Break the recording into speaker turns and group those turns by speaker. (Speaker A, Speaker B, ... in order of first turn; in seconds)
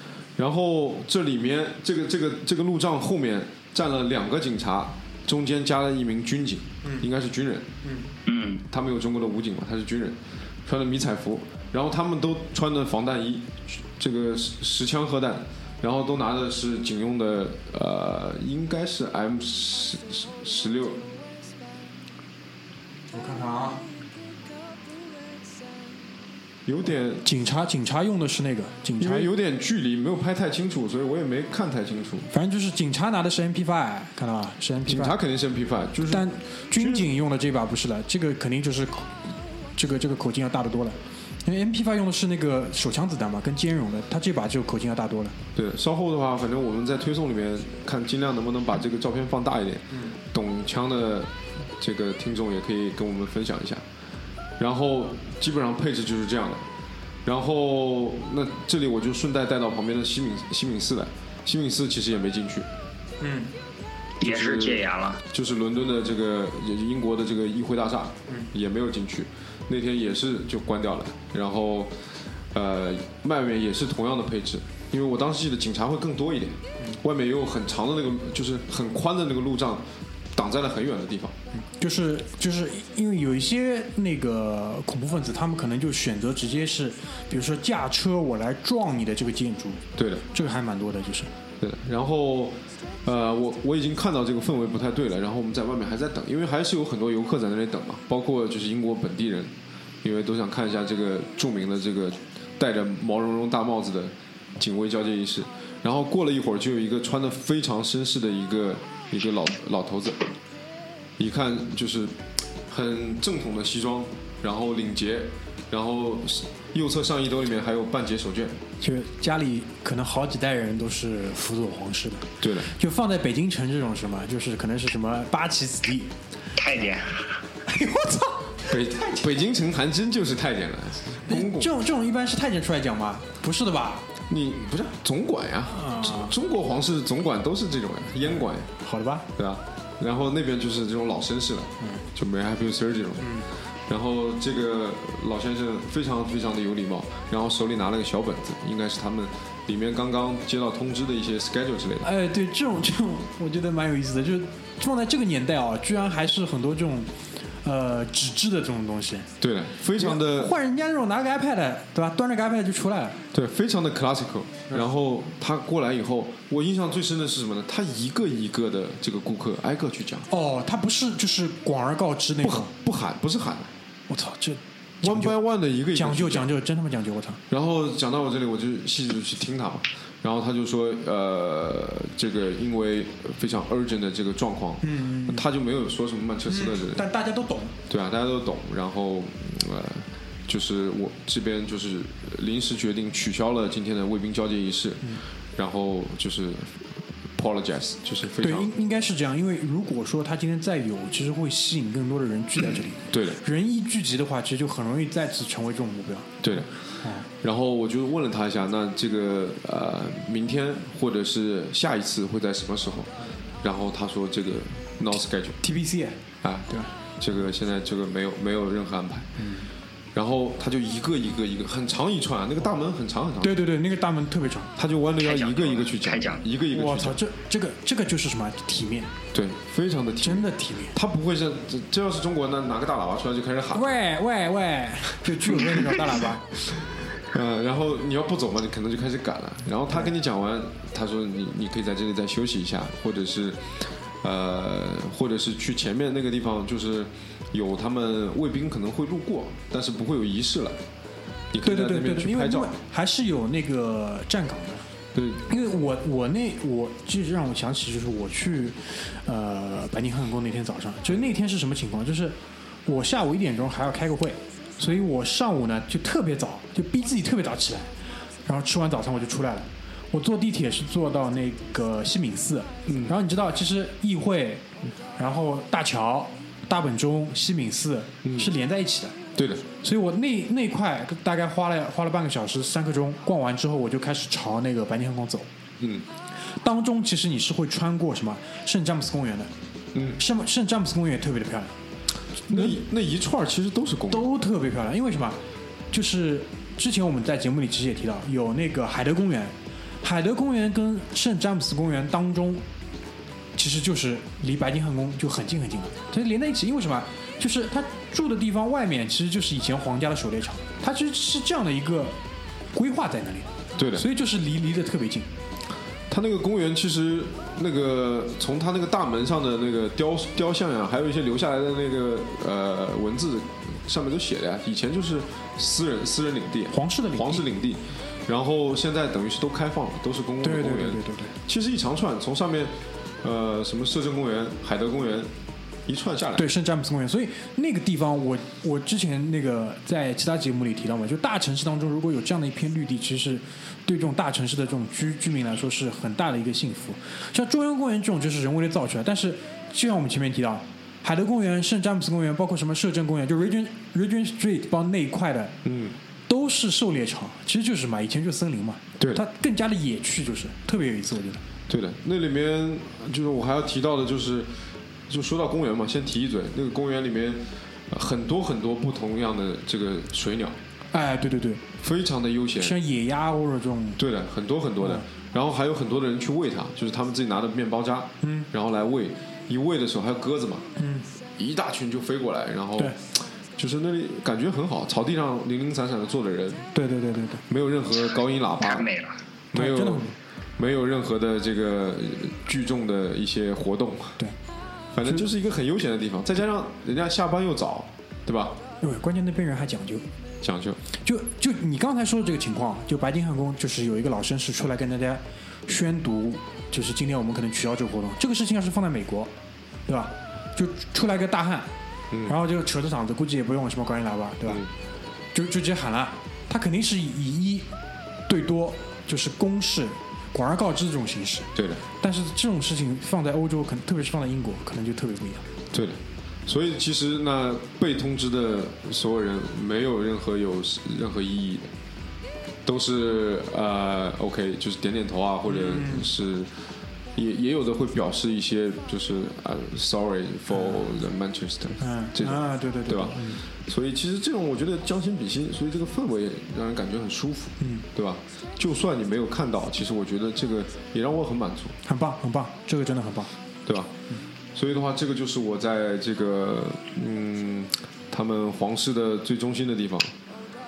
Speaker A: 0.4-7.7, 8.7-21.1, 26.6-27.2, 29.0-32.3, 34.9-37.1, 45.5-53.8, 54.6-56.6, 57.2-62.7, 64.2-71.9, 72.5-81.3, 90.0-90.2, 91.6-110.3, 111.2-118.6, 122.4-122.7, 128.6-131.7, 134.3-138.7, 139.4-152.1, 159.4-160.5, 163.3-170.3, 172.4-173.7, 175.0-176.5, 177.5-187.0, 187.9-198.7, 203.1-203.4, 206.4-206.7, 207.3-213.1, 213.6-215.6, 216.4-219.3, 220.1-223.6, 224.8-227.2, 229.3-234.0, 235.3-236.0, 237.1-250.8, 251.5-252.7, 255.1-255.4, 272.9-273.1, 278.2-278.5, 279.3-279.6, 285.8-286.0, 289.9-290.2, 292.5-294.3, 313.7-314.1, 316.1-335.3, 335.9-336.5, 355.6-356.0, 361.7-364.5, 365.1-370.6, 371.8-372.8, 374.0-380.7, 381.4-386.7, 387.5-388.9, 389.5-394.2, 394.9-398.6, 400.4-400.8, 421.5-421.8, 425.7-431.7, 432.6-436.5, 437.1-451.8, 453.6-453.9, 454.5-460.1
Speaker B: 7.8-8.1, 23.1-23.8, 27.2-29.3, 32.3-35.2, 36.0-45.3, 63.2-63.5, 81.5-91.3, 118.8-126.1, 127.7-128.7, 131.2-134.1, 135.7-136.3, 138.8-139.3, 143.2-143.5, 152.0-159.3, 159.9-163.2, 170.3-172.7, 174.1-175.4, 175.9-177.4, 184.8-185.4, 186.5-187.7, 198.4-207.3, 215.6-216.9, 219.4-219.7, 223.4-224.7, 226.7-229.1, 230.2-230.9, 233.7-236.5, 251.6-254.9, 255.5-267.9, 268.4-279.1, 279.8-285.5, 286.5-289.5, 290.2-291.8, 292.5-292.8, 294.1-295.4, 295.9-302.6, 303.6-312.2, 312.7-315.3, 326.7-327.4, 330.4-331.4, 336.3-355.5, 356.3-361.4, 370.9-371.6, 372.6-374.0, 378.2-378.5, 380.8-381.1, 386.7-387.4, 389.5-390.1, 398.8-400.1, 401.0-409.3, 409.9-411.7, 412.2-414.6, 415.3-417.7, 418.3-425.4, 435.5-436.1, 441.8-443.4, 447.6-447.9, 451.8-453.3
Speaker C: 8.2-8.6, 64.2-65.2, 126.5-127.4, 225.2-226.4, 388.6-389.2